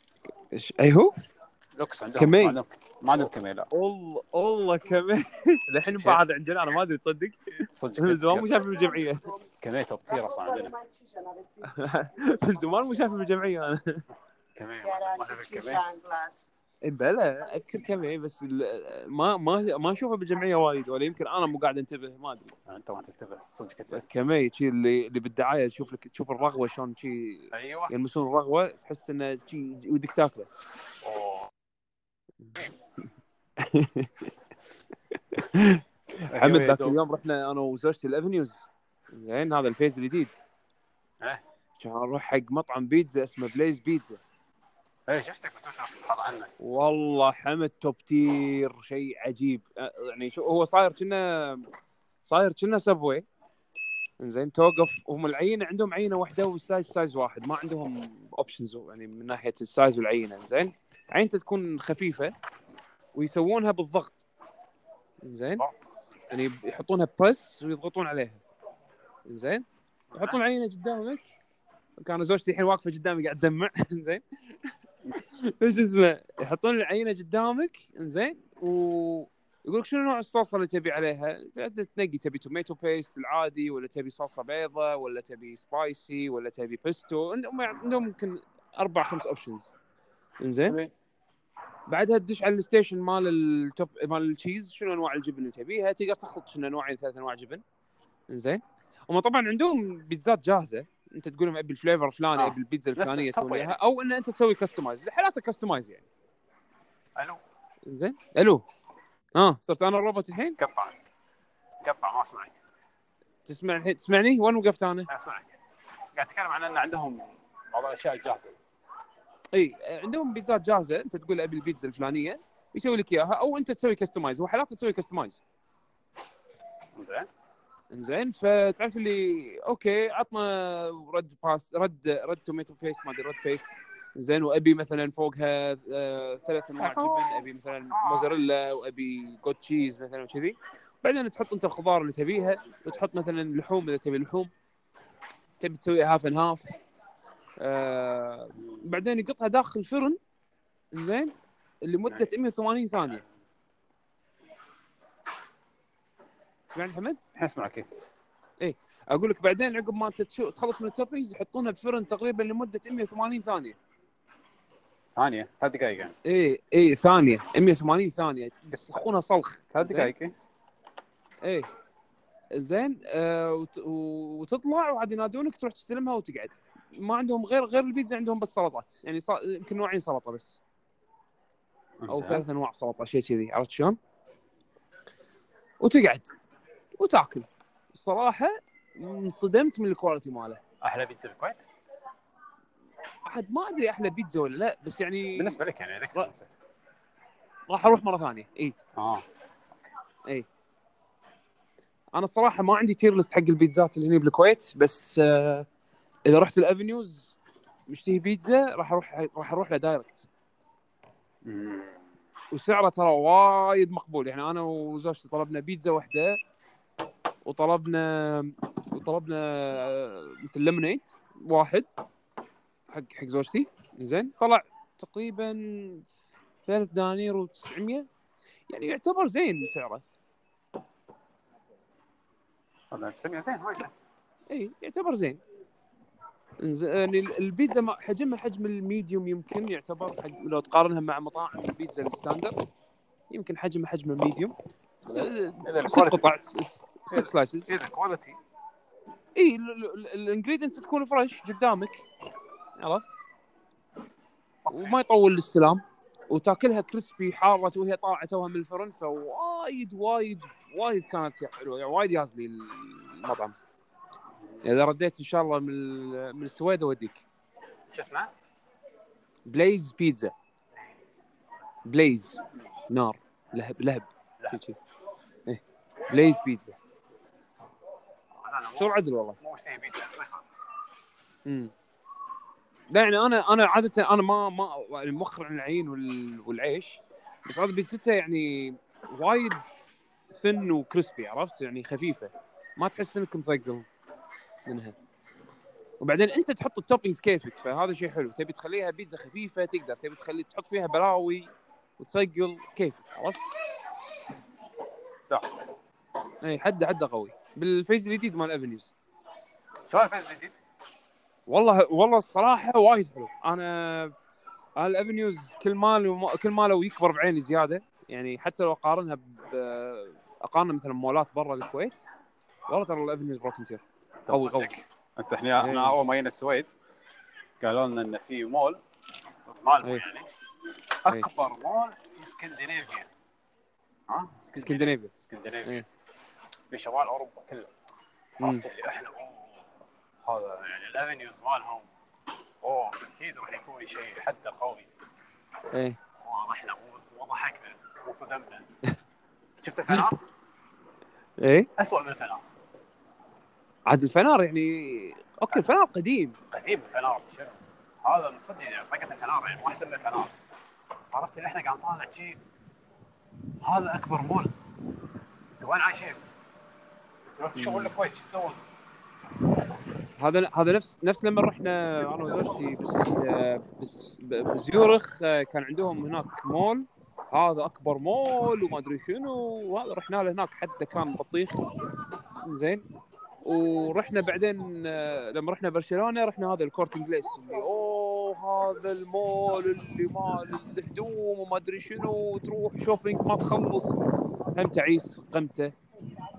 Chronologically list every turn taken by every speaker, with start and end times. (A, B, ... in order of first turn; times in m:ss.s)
0:00.5-0:01.1 A
0:01.8-0:03.7 B
0:02.2-0:02.6 A
0:03.7-0:09.4 A
0:05.8-0:06.8 B
0:07.7-0:08.7 B
0:09.4-0:10.8 B
0:11.6-0:14.1 A
0:14.6-0:16.2 B
0:16.8-0:22.5 A
0:22.7-0:24.0 B
0:23.9-0:30.5 A
0:27.5-0:27.9 B
0:31.0-0:31.5 B
0:33.6-0:34.3 A
0:35.1-0:40.3 A
0:36.3-0:37.0 B
0:41.8-0:44.2 A
0:45.1-0:46.5 B
0:46.6-0:51.7 A
0:52.2-0:53.2 A
0:54.2-1:02.3 A
1:03.1-1:04.2 A
1:05.2-1:05.6 A
1:05.6-1:06.4 B
1:06.3-1:08.4 A
1:09.3-1:11.3 A
1:10.1-1:10.4 B
1:12.0-1:14.2 A
1:15.3-1:29.7 A
1:30.4-1:30.8 A
1:30.7-1:30.9 B
1:31.9-1:37.6 A
1:38.3-1:46.1 A
1:42.4-1:43.8 B
1:47.2-1:47.4 B
1:47.9-1:48.6 A
1:49.4-1:50.6 A
1:50.6-1:51.0 B
1:51.8-1:52.6 B
1:53.4-1:55.1 A
1:55.1-1:55.6 B
1:56.1-1:58.6 B
1:59.5-2:05.4 A
2:07.0-2:07.3 B
2:07.9-2:24.5 A
2:16.8-2:18.4 B
2:25.6-2:26.7 A
2:27.6-2:30.2 A
2:30.9-2:33.2 A
2:36.7-2:37.2 A
2:37.4-2:37.9 B
2:38.6-2:43.8 A
2:45.2-2:46.1 B
2:46.2-2:50.1 A
2:49.7-2:50.3 B
2:52.5-3:00.6 A
3:02.0-3:02.4 B
3:02.1-3:04.0 A
3:05.8-3:06.3 A
3:07.0-3:10.6 A
3:10.8-3:11.6 B
3:13.3-3:15.6 A
3:15.4-3:16.5 B
3:17.7-3:18.8 A
3:19.0-3:19.2 B
3:22.1-3:25.7 A
3:26.3-3:27.4 A
3:27.9-3:30.3 A
3:31.4-3:32.0 B
3:32.5-3:36.4 A
3:37.4-3:41.9 A
3:42.9-3:46.1 A
3:46.6-3:48.1 A
3:48.7-3:50.0 A
3:52.9-3:53.9 B
3:54.5-3:55.4 A
3:56.6-4:02.6 A
4:03.3-4:07.7 A
4:05.1-4:06.4 B
4:07.1-4:08.4 B
4:09.4-4:12.1 A
4:12.8-4:13.2 A
4:14.6-4:15.0 B
4:14.7-4:23.6 A
4:24.6-4:27.2 A
4:27.9-4:28.3 B
4:29.5-4:30.3 A
4:30.8-4:31.3 B
4:31.9-4:34.8 A
4:35.5-4:36.8 A
4:37.2-4:37.5 B
4:38.3-4:40.4 B
4:38.8-4:39.4 A
4:41.4-4:41.7 A
4:42.9-4:49.7 A
4:50.3-4:53.9 A
4:54.7-4:55.0 A
4:56.0-5:03.5 A
5:06.4-5:08.9 A
5:09.9-5:10.6 B
5:11.5-5:14.1 A
5:14.8-5:22.0 A
5:22.7-5:24.7 A
5:24.3-5:26.7 B
5:25.6-5:26.0 A
5:27.6-5:28.8 B
5:29.4-5:30.3 B
5:31.0-5:33.1 B
5:34.1-5:35.9 B
5:34.6-5:35.1 A
5:36.7-5:37.7 B
5:38.4-5:39.6 B
5:38.4-5:38.6 A
5:40.2-5:41.9 B
5:42.6-5:44.9 B
5:45.7-5:46.0 A
5:46.2-5:48.7 B
5:49.6-5:50.2 B
5:51.4-5:51.7 A
5:51.8-5:52.4 B
5:53.9-5:56.4 A
5:56.5-6:00.3 B
6:01.1-6:02.4 B
6:03.6-6:04.5 B
6:05.6-6:06.2 B
6:07.3-6:08.6 B
6:07.6-6:07.9 A
6:10.2-6:21.6 A
6:22.4-6:22.8 A
6:23.4-6:34.0 A
6:34.5-6:35.7 A